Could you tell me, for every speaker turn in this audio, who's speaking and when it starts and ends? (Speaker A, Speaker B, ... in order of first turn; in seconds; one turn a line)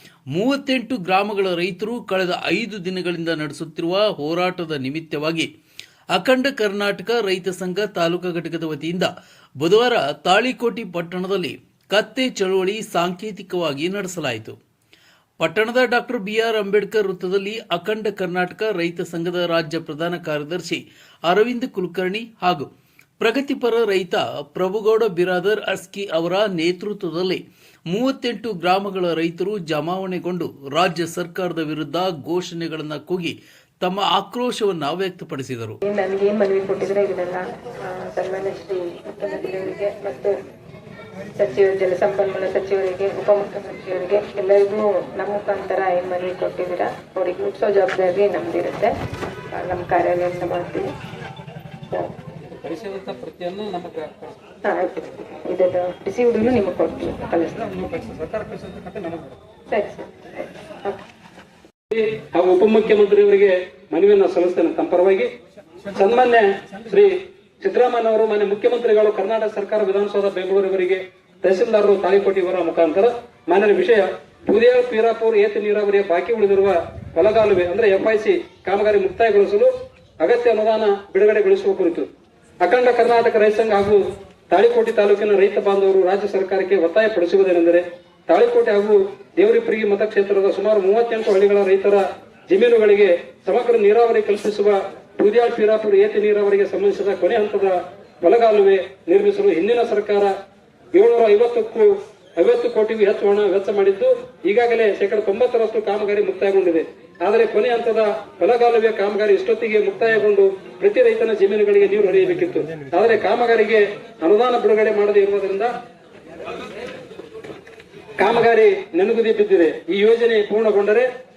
Speaker A: 0.3-5.5
Speaker A: 6.1-14.6
Speaker A: 15.4-22.7
Speaker A: 23.2-35.8
Speaker B: 35.8-40.4
Speaker B: 41.4-49.0
Speaker B: 49.5-50.9
Speaker C: 52.5-54.4
Speaker B: 54.6-57.8
Speaker C: 57.7-59.4
Speaker B: 59.7-61.0
Speaker C: 61.9-65.3
Speaker C: 65.9-82.1
Speaker C: 82.6-100.3
Speaker C: 100.9-115.7
Speaker C: 118.2-121.1